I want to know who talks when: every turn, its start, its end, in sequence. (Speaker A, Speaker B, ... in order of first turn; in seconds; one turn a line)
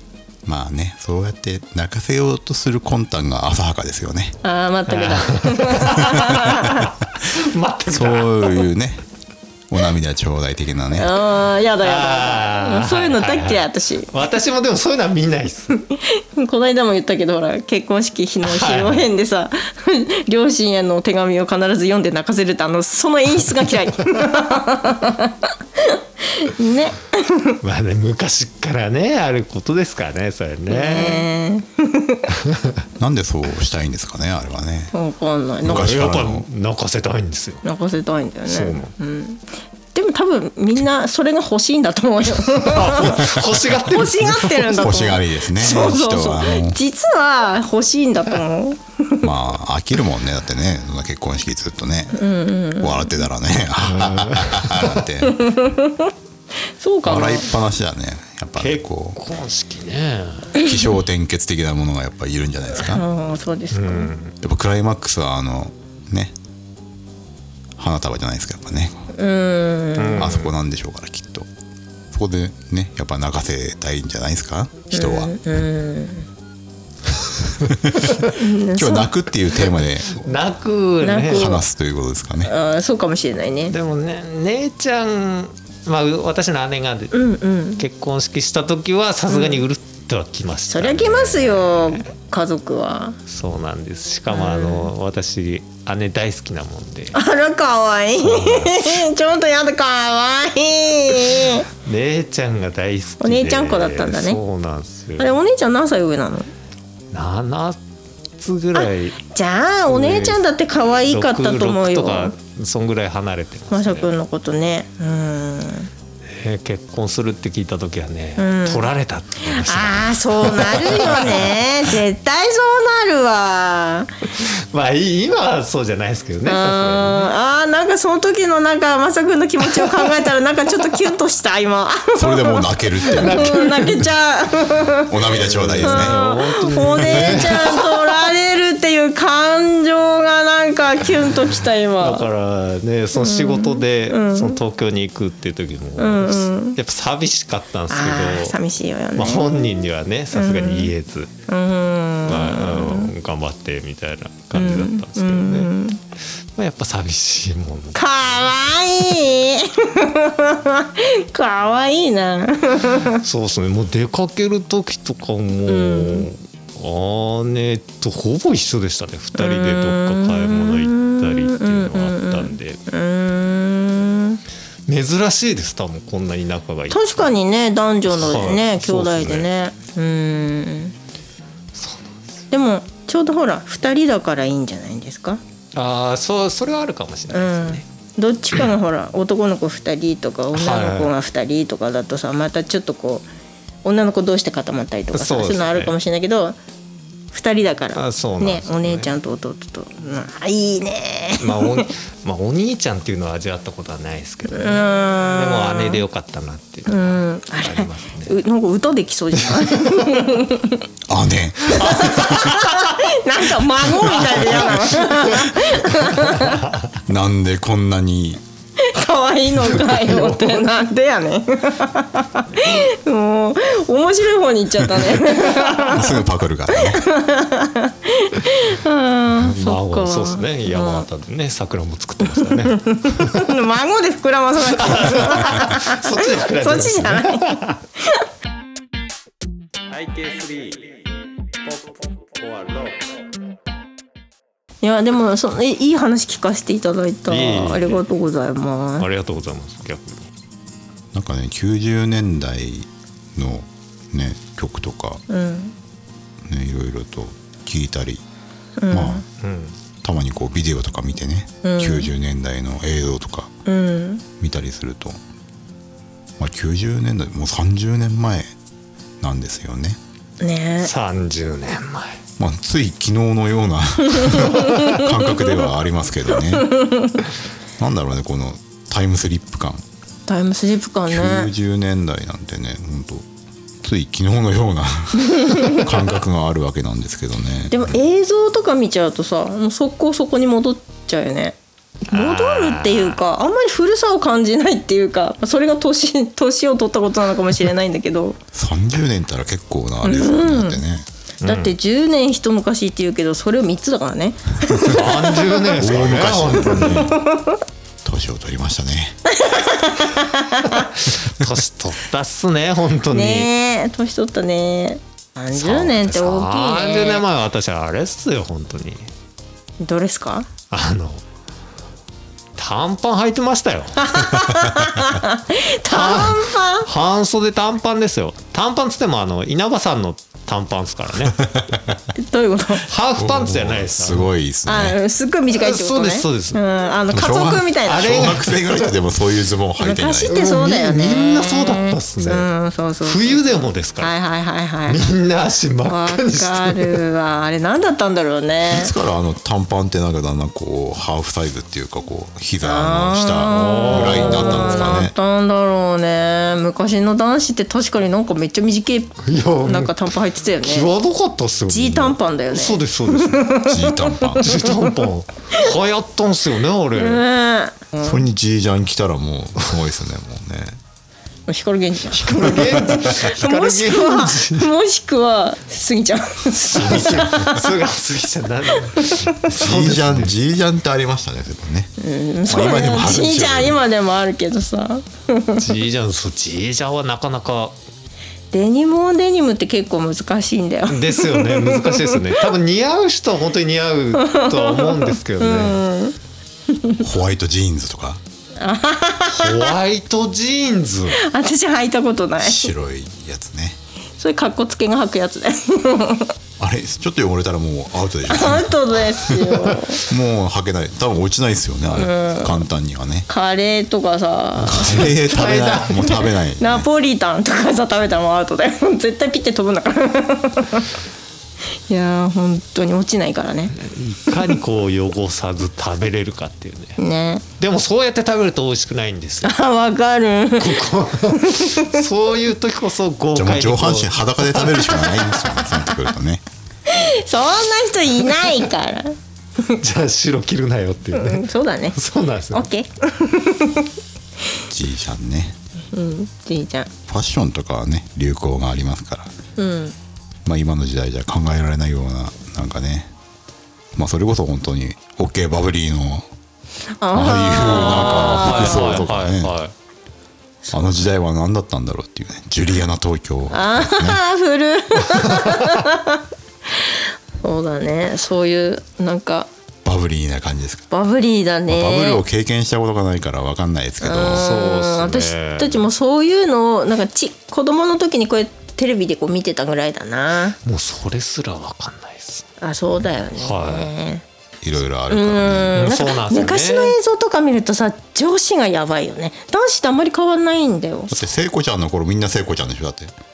Speaker A: 0.5-4.4
Speaker B: 4.4-7.0
Speaker C: 4.9-8.7
Speaker A: 7.9-9.1
Speaker A: 9.7-11.1
Speaker B: 10.9-14.1
Speaker C: 11.8-15.8
Speaker B: 15.7-27.6
Speaker C: 18.4-19.1
Speaker C: 27.6-31.3
Speaker B: 30.7-32.3
Speaker C: 32.4-32.7
Speaker A: 33.0-34.9
Speaker B: 34.9-35.9
Speaker A: 35.6-36.5
Speaker C: 35.6-37.6
Speaker B: 37.6-49.3
Speaker C: 38.5-38.9
Speaker C: 42.7-44.9
Speaker A: 43.0-43.5
Speaker A: 44.7-46.8
Speaker A: 49.2-52.2
Speaker B: 52.1-53.3
Speaker A: 52.8-55.4
Speaker C: 53.8-55.0
Speaker B: 55.2-56.1
Speaker B: 56.8-57.5
Speaker A: 57.0-59.2
Speaker C: 58.6-60.6
Speaker A: 60.6-63.0
Speaker B: 62.8-64.1
Speaker C: 63.7-64.3
Speaker A: 64.4-66.3
Speaker A: 67.8-69.1
Speaker B: 69.1-70.3
Speaker C: 70.0-70.5
Speaker A: 70.2-71.5
Speaker A: 72.1-75.3
Speaker B: 74.9-76.3
Speaker A: 77.5-78.2
Speaker B: 78.0-79.1
Speaker A: 78.7-80.3
Speaker C: 80.2-81.6
Speaker B: 81.0-81.6
Speaker A: 81.3-82.5
Speaker B: 82.4-83.7
Speaker C: 83.7-87.2
Speaker B: 87.1-87.8
Speaker C: 87.8-92.1
Speaker B: 89.3-89.7
Speaker B: 90.7-93.2
Speaker C: 93.3-97.2
Speaker B: 94.3-94.9
Speaker B: 97.1-101.7
Speaker C: 98.2-99.1
Speaker C: 101.8-105.4
Speaker B: 103.2-104.4
Speaker B: 105.2-106.5
Speaker C: 107.1-107.8
Speaker C: 108.4-109.2
Speaker B: 108.8-112.3
Speaker C: 109.9-110.4
Speaker C: 111.1-114.1
Speaker B: 113.7-115.9
Speaker C: 116.2-121.7
Speaker B: 118.4-118.9
Speaker B: 119.5-124.1
Speaker C: 124.4-127.3
Speaker B: 126.5-135.1
Speaker C: 129.7-130.1
Speaker A: 132.2-133.5
Speaker C: 133.1-134.1
Speaker A: 135.1-136.2
Speaker C: 135.4-138.2
Speaker B: 135.8-142.3
Speaker A: 137.0-137.6
Speaker C: 142.0-148.6
Speaker B: 143.2-144.6
Speaker B: 146.0-146.8
Speaker B: 147.9-149.8
Speaker C: 149.2-151.3
Speaker B: 150.3-150.9
Speaker B: 151.5-153.1
Speaker C: 152.2-155.7
Speaker B: 154.5-156.0
Speaker C: 156.6-158.0
Speaker B: 157.9-163.2
Speaker C: 163.2-172.8
Speaker B: 165.7-166.3
Speaker B: 169.3-174.4
Speaker C: 174.9-177.3
Speaker B: 176.9-180.9
Speaker C: 178.1-179.5
Speaker C: 181.8-182.2
Speaker B: 182.5-185.4
Speaker C: 185.8-187.8
Speaker B: 187.3-193.3
Speaker C: 190.5-191.1
Speaker B: 193.8-196.6
Speaker C: 195.1-195.9
Speaker B: 197.3-201.9
Speaker C: 197.9-199.1
Speaker C: 201.4-208.3
Speaker B: 204.5-206.0
Speaker B: 206.9-210.8
Speaker C: 209.5-210.2
Speaker A: 211.1-212.6
Speaker B: 211.7-216.6
Speaker C: 214.1-215.4
Speaker C: 216.2-217.0
Speaker A: 217.1-218.4
Speaker B: 218.8-231.1
Speaker C: 219.8-220.7
Speaker A: 225.8-227.1
Speaker C: 229.4-233.5
Speaker B: 232.2-238.2
Speaker C: 234.7-237.8
Speaker C: 239.9-241.0
Speaker C: 241.7-243.0
Speaker B: 244.8-249.1
Speaker C: 247.3-248.0
Speaker C: 249.0-250.3
Speaker A: 251.1-255.2
Speaker B: 255.3-255.7
Speaker A: 256.4-258.2
Speaker B: 258.8-259.2
Speaker A: 258.9-259.2
Speaker C: 259.4-259.8
Speaker A: 260.0-263.5
Speaker B: 261.6-262.1
Speaker B: 263.7-264.2
Speaker A: 264.4-265.2
Speaker A: 266.4-268.5
Speaker A: 269.2-270.0
Speaker B: 270.4-270.9
Speaker C: 270.8-272.2
Speaker A: 272.4-276.7
Speaker B: 274.1-275.7
Speaker B: 276.4-277.3
Speaker A: 277.8-279.8
Speaker B: 280.3-281.5
Speaker A: 281.1-283.3
Speaker A: 283.8-287.9
Speaker B: 285.3-285.9
Speaker B: 287.7-291.6
Speaker B: 292.1-298.4
Speaker C: 292.1-293.2
Speaker A: 298.5-301.1
Speaker B: 300.0-300.8
Speaker C: 301.4-301.8
Speaker B: 301.4-305.8
Speaker C: 304.8-307.1
Speaker A: 305.8-307.2
Speaker B: 306.6-307.6
Speaker A: 308.0-309.2
Speaker B: 309.3-310.9
Speaker C: 310.8-313.5
Speaker B: 313.1-317.2
Speaker C: 315.5-319.1
Speaker B: 319.8-320.5
Speaker C: 320.7-321.2
Speaker C: 322.6-324.3
Speaker B: 324.0-326.9
Speaker C: 325.9-331.5
Speaker A: 331.4-331.9
Speaker B: 332.1-332.9
Speaker C: 332.8-334.3
Speaker A: 333.2-335.0
Speaker B: 334.7-338.3
Speaker C: 335.5-336.6
Speaker A: 337.1-340.4
Speaker C: 337.8-338.9
Speaker B: 339.8-345.1
Speaker C: 340.3-342.5
Speaker C: 343.0-344.1
Speaker C: 344.9-347.0
Speaker B: 345.9-348.9
Speaker A: 348.7-355.1
Speaker B: 352.6-360.9
Speaker C: 353.5-355.1
Speaker C: 359.2-360.0
Speaker C: 360.6-363.5
Speaker B: 361.7-365.0
Speaker A: 363.7-364.6
Speaker C: 364.4-367.2
Speaker B: 366.9-368.2
Speaker A: 368.0-370.8
Speaker B: 371.5-377.7
Speaker C: 372.2-374.7
Speaker A: 372.3-373.0
Speaker C: 376.7-380.4
Speaker B: 378.9-379.5
Speaker A: 379.5-381.9
Speaker B: 382.0-385.7
Speaker A: 382.5-383.8
Speaker C: 385.6-387.8
Speaker B: 388.5-392.4
Speaker C: 390.9-395.8
Speaker B: 394.1-396.2
Speaker B: 396.7-397.0
Speaker A: 397.0-398.2
Speaker B: 398.6-399.8
Speaker C: 399.3-401.2
Speaker B: 401.1-402.7
Speaker A: 402.4-403.8
Speaker B: 404.2-406.3
Speaker A: 406.6-413.3
Speaker B: 408.3-410.0
Speaker B: 411.9-412.6
Speaker B: 413.3-415.1
Speaker A: 414.6-416.9
Speaker C: 414.7-416.2
Speaker B: 416.1-420.9
Speaker B: 421.9-423.8
Speaker C: 423.7-427.0
Speaker B: 424.3-424.6
Speaker B: 427.0-427.4
Speaker C: 427.6-429.5
Speaker B: 429.4-432.0
Speaker C: 430.6-435.0
Speaker A: 433.4-436.4
Speaker B: 434.8-435.4
Speaker B: 436.9-439.8
Speaker C: 439.8-442.7
Speaker B: 441.1-442.0
Speaker B: 442.5-443.9
Speaker A: 444.7-445.6
Speaker B: 445.9-446.9
Speaker A: 447.1-449.3
Speaker B: 449.6-449.9
Speaker A: 450.4-453.1
Speaker A: 453.9-456.3
Speaker B: 457.0-459.1
Speaker A: 457.1-459.6
Speaker C: 457.6-459.7
Speaker B: 460.7-460.9
Speaker A: 460.7-464.2
Speaker B: 463.5-469.5
Speaker A: 469.9-470.9
Speaker B: 470.9-472.2
Speaker A: 471.7-474.5
Speaker B: 474.0-480.6
Speaker C: 474.2-475.9
Speaker C: 480.6-482.5
Speaker B: 482.6-484.2
Speaker C: 483.4-483.9
Speaker A: 484.6-485.9
Speaker B: 485.1-491.2
Speaker C: 485.8-487.0
Speaker A: 491.1-493.1